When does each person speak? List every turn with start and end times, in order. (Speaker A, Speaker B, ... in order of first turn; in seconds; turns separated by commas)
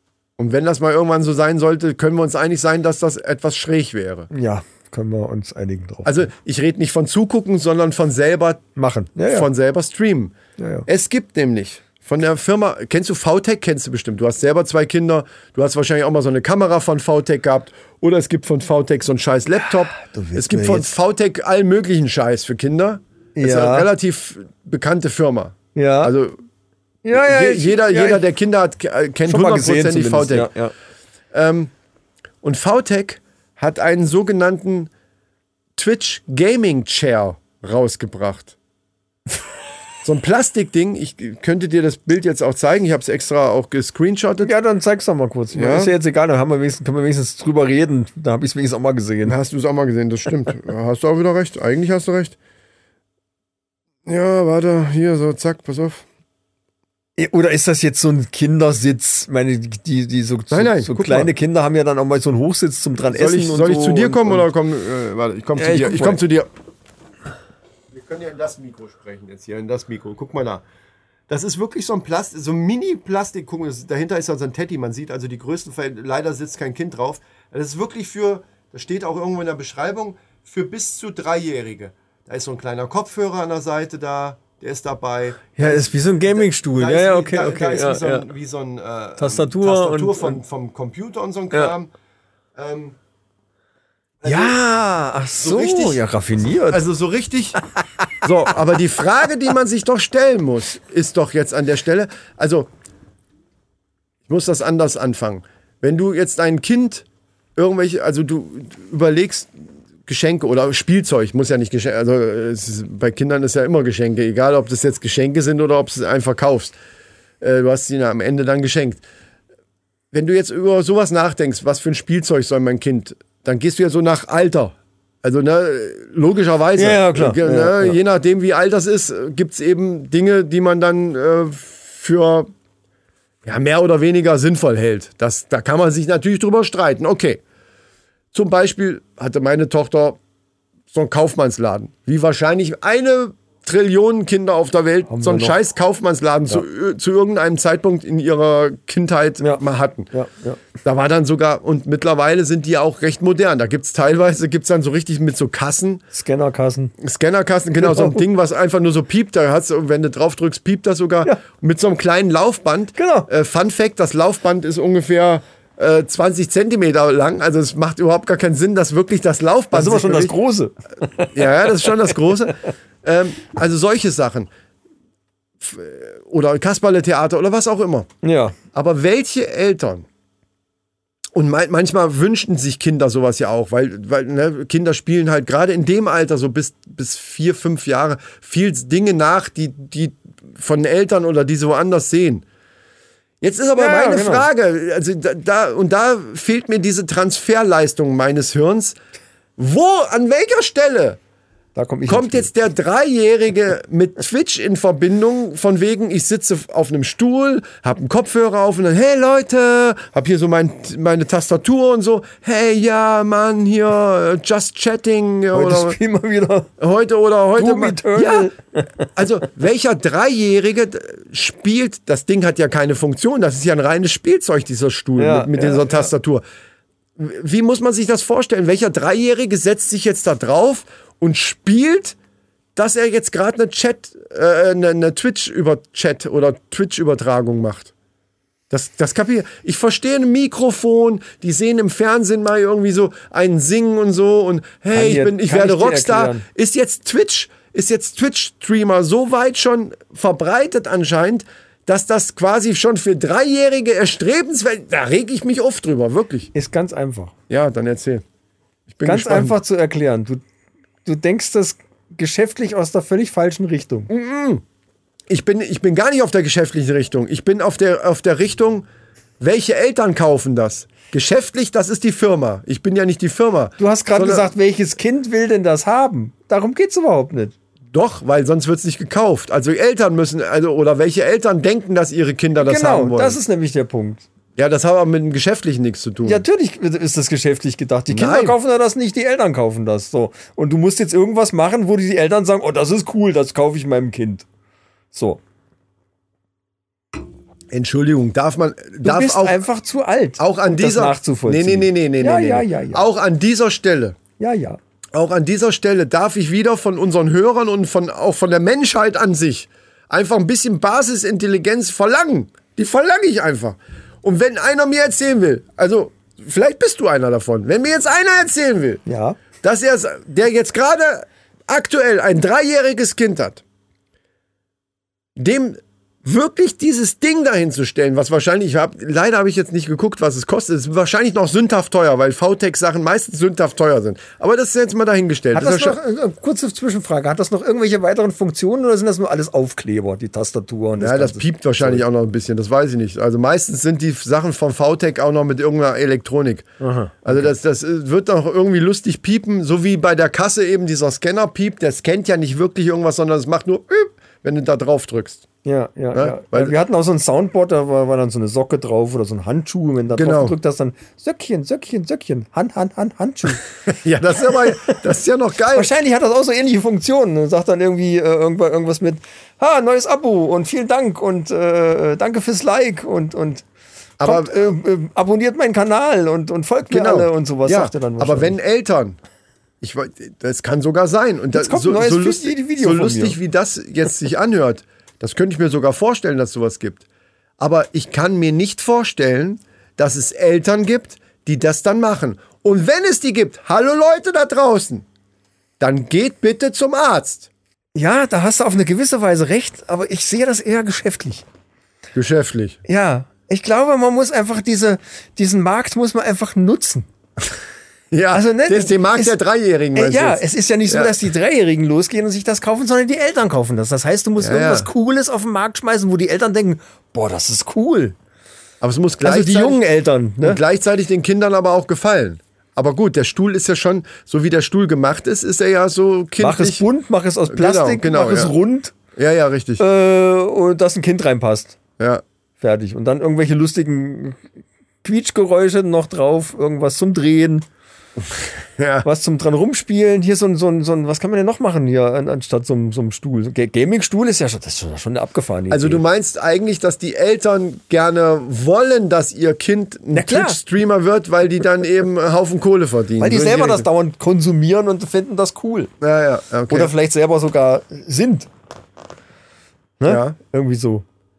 Speaker A: 0.4-4.3, Speaker B: 4.3-6.3, Speaker A: 6.0-8.6, Speaker B: 8.8-9.5, Speaker A: 9.3-10.3, Speaker B: 10.6-10.9, Speaker A: 10.9-26.4, Speaker B: 19.9-20.9, Speaker B: 23.4-23.9, Speaker B: 25.7-26.1, Speaker B: 27.0-28.2, Speaker A: 27.1-30.5, Speaker B: 29.3-30.7, Speaker A: 31.3-31.7, Speaker A: 32.4-34.9, Speaker A: 35.8-38.5, Speaker A: 40.0-44.5, Speaker B: 44.4-49.4, Speaker A: 45.5-45.9, Speaker A: 49.2-52.4, Speaker A: 54.0-56.0, Speaker B: 57.2-64.5, Speaker A: 60.5-61.3, Speaker A: 63.1-66.5, Speaker B: 65.5-66.2, Speaker A: 67.9-70.6, Speaker A: 71.3-91.9, Speaker B: 85.6-88.3, Speaker B: 89.2-90.4, Speaker A: 92.5-93.0, Speaker A: 94.2-94.6, Speaker B: 94.2-96.8, Speaker A: 95.4-96.0, Speaker A: 96.7-97.6, Speaker A: 98.2-102.7, Speaker A: 104.3-109.5, Speaker A: 110.0-116.7, Speaker A: 117.4-119.0, Speaker A: 120.1-132.5, Speaker B: 126.8-128.0, Speaker A: 133.4-137.4, Speaker A: 138.3-140.2, Speaker A: 140.9-150.1, Speaker B: 145.1-145.6, Speaker B: 149.4-150.6, Speaker A: 150.8-156.0, Speaker B: 156.1-156.9, Speaker A: 157.0-170.3, Speaker B: 157.8-158.2, Speaker B: 162.9-163.3, Speaker B: 169.7-172.3, Speaker A: 171.3-174.5, Speaker A: 175.6-178.1, Speaker B: 178.2-178.6, Speaker A: 178.7-180.1, Speaker A: 181.3-192.4, Speaker A: 193.4-199.0, Speaker B: 193.8-194.5, Speaker A: 199.6-201.2, Speaker B: 201.7-202.5, Speaker A: 202.1-216.0, Speaker B: 215.5-216.7, Speaker A: 216.8-218.5, Speaker B: 217.6-219.1, Speaker A: 219.1-226.4, Speaker B: 225.2-226.1, Speaker A: 227.2-232.2, Speaker A: 232.8-237.9, Speaker A: 238.7-256.5, Speaker B: 244.9-246.4, Speaker B: 256.5-257.3, Speaker A: 257.5-258.2, Speaker A: 258.9-259.6, Speaker B: 259.0-260.4, Speaker B: 261.0-264.1, Speaker A: 264.1-264.6, Speaker A: 265.3-268.9, Speaker A: 269.4-274.5, Speaker B: 273.8-277.5, Speaker A: 277.9-283.4, Speaker B: 282.6-284.2, Speaker A: 284.6-286.4, Speaker B: 286.2-294.5, Speaker A: 288.1-288.6, Speaker B: 295.1-295.4, Speaker A: 297.7-299.6, Speaker B: 299.0-303.0, Speaker A: 300.4-304.2, Speaker B: 304.4-304.8, Speaker A: 305.1-319.0, Speaker B: 319.1-319.4, Speaker A: 319.6-323.6, Speaker A: 325.4-336.0, Speaker B: 335.5-342.0, Speaker A: 341.0-346.7, Speaker B: 346.8-347.5, Speaker A: 347.2-355.4, Speaker B: 355.6-363.6, Speaker A: 356.1-356.7, Speaker A: 360.1-360.5, Speaker A: 363.9-365.9, Speaker B: 364.5-365.0, Speaker B: 365.7-373.6, Speaker A: 374.2-374.6, Speaker B: 374.2-378.6, Speaker A: 376.9-379.2, Speaker A: 379.8-387.0, Speaker B: 381.5-383.4, Speaker A: 387.6-395.0, Speaker A: 395.8-397.5, Speaker B: 397.9-401.4, Speaker A: 402.1-402.8, Speaker B: 402.9-407.1, Speaker A: 408.1-411.1, Speaker B: 408.3-409.4, Speaker B: 409.9-418.1, Speaker A: 414.4-414.9, Speaker A: 418.8-419.8, Speaker B: 419.2-420.6, Speaker A: 420.4-426.8, Speaker B: 426.4-428.9, Speaker A: 427.5-428.6, Speaker A: 429.1-429.8, Speaker B: 429.8-431.8, Speaker B: 432.6-434.4, Speaker B: 435.0-437.6, Speaker A: 438.8-439.1, Speaker B: 439.0-446.0, Speaker A: 445.7-453.9, Speaker B: 450.1-450.6, Speaker B: 453.2-455.9, Speaker A: 456.0-456.9, Speaker B: 456.7-458.5, Speaker B: 460.0-461.0, Speaker A: 460.1-460.4